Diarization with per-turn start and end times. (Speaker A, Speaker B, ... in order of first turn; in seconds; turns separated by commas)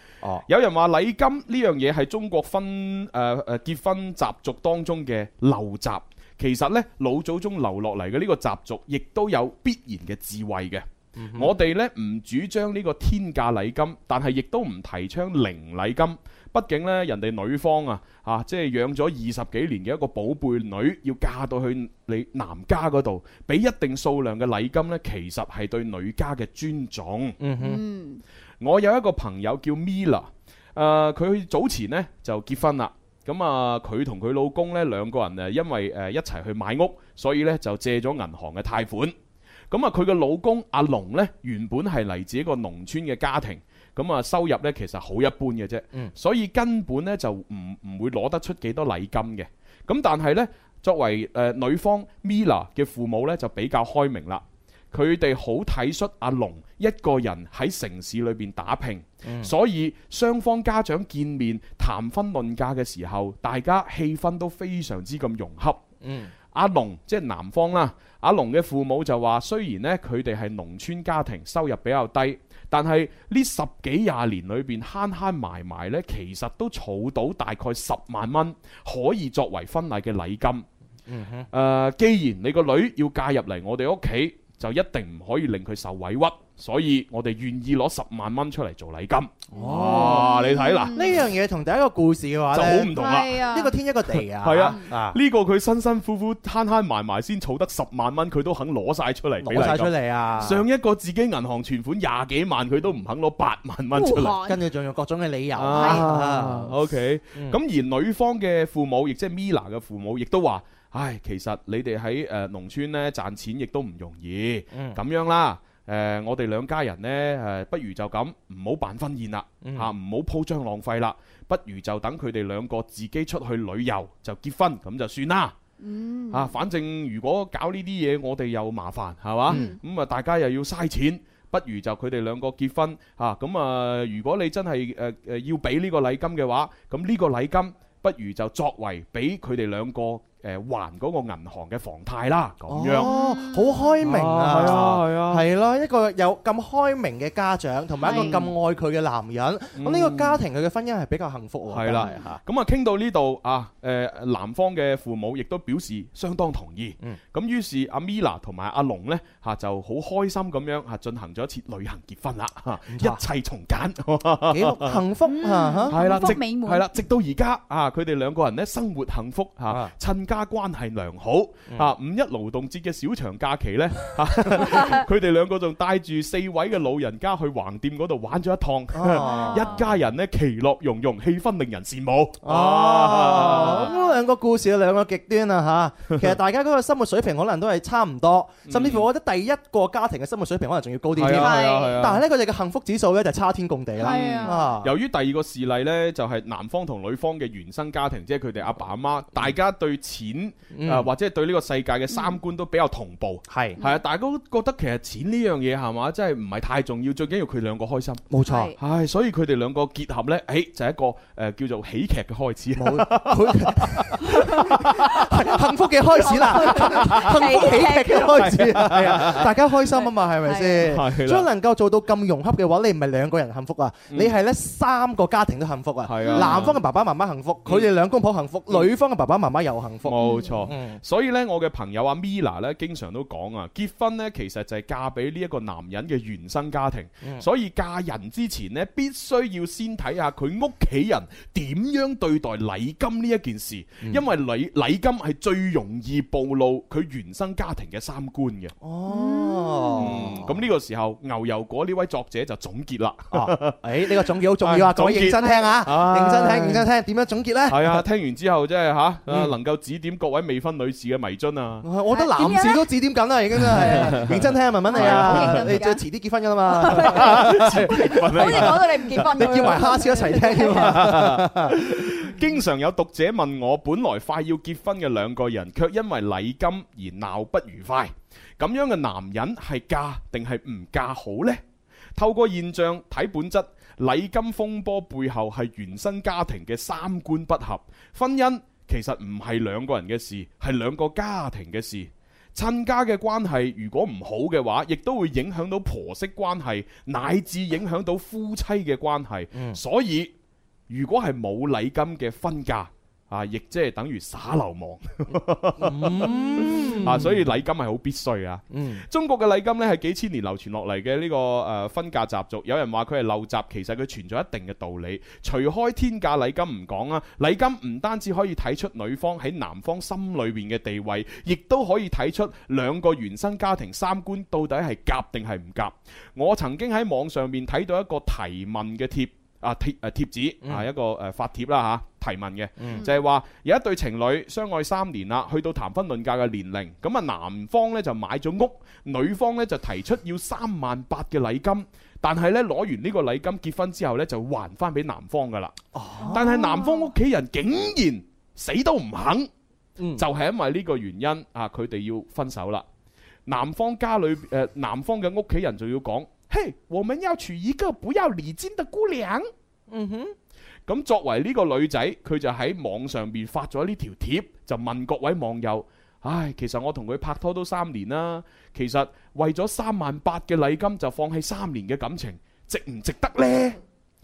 Speaker A: 0.5-27.4, Speaker B: 11.2-11.5, Speaker B: 27.4-27.8, Speaker C: 27.6-28.2, Speaker A: 28.6-39.1, Speaker A: 39.7-65.8, Speaker B: 59.2-59.5, Speaker B: 66.0-66.3, Speaker A: 66.5-80.7, Speaker B: 81.1-81.5, Speaker A: 81.5-91.0, Speaker B: 89.5-90.3, Speaker C: 89.5-91.2, Speaker B: 90.9-95.2, Speaker A: 92.5-93.4, Speaker C: 92.9-93.8, Speaker A: 94.4-104.3, Speaker B: 99.4-100.6, Speaker C: 103.9-104.6, Speaker B: 104.4-106.8, Speaker A: 105.5-125.5, Speaker C: 105.7-106.0, Speaker B: 114.7-115.0, Speaker B: 119.6-119.9, Speaker C: 125.8-126.5, Speaker A: 126.3-143.1, Speaker B: 129.5-129.8, Speaker C: 129.5-129.8, Speaker B: 142.7-152.4, Speaker C: 142.9-144.0, Speaker A: 144.0-145.4, Speaker C: 148.0-148.5, Speaker A: 148.1-148.5, Speaker A: 149.8-150.4, Speaker A: 151.7-165.0, Speaker B: 162.9-163.2, Speaker B: 164.5-166.3, Speaker C: 165.2-166.8, Speaker A: 165.9-183.9, Speaker B: 178.9-179.8, Speaker C: 179.2-179.9, Speaker B: 182.4-194.9, Speaker C: 183.5-184.2, Speaker A: 188.7-189.1, Speaker A: 191.2-192.2, Speaker C: 191.3-192.0, Speaker C: 193.9-194.7, Speaker A: 194.0-208.2, Speaker B: 200.7-201.1, Speaker B: 203.5-203.8, Speaker B: 208.3-208.7, Speaker C: 208.4-208.8, Speaker A: 208.8-215.3, Speaker B: 212.8-231.0, Speaker C: 216.2-218.6, Speaker A: 216.3-219.5, Speaker C: 219.9-220.9, Speaker A: 220.8-221.5, Speaker A: 224.1-224.3, Speaker A: 226.0-226.8, Speaker C: 226.2-226.7, Speaker A: 230.0-248.7, Speaker C: 230.2-230.6, Speaker B: 248.8-250.5, Speaker C: 249.1-250.2, Speaker A: 249.9-256.9, Speaker B: 253.3-258.0, Speaker A: 257.7-261.9, Speaker B: 259.3-259.5, Speaker B: 261.8-272.1, Speaker C: 262.1-262.9, Speaker C: 263.7-264.3, Speaker A: 263.8-264.4, Speaker C: 264.8-266.0, Speaker A: 264.9-265.7, Speaker C: 266.7-271.1, Speaker A: 266.9-269.8, Speaker A: 270.6-281.6, Speaker A: 282.1-300.3, Speaker B: 299.5-299.8, Speaker A: 300.9-345.8, Speaker B: 305.8-307.4, Speaker B: 308.7-309.0, Speaker B: 345.9-346.4, Speaker C: 346.2-347.1, Speaker A: 346.3-349.5, Speaker B: 350.0-350.2, Speaker A: 350.1-352.8, Speaker A: 353.4-359.5, Speaker B: 359.9-360.3, Speaker A: 360.9-373.8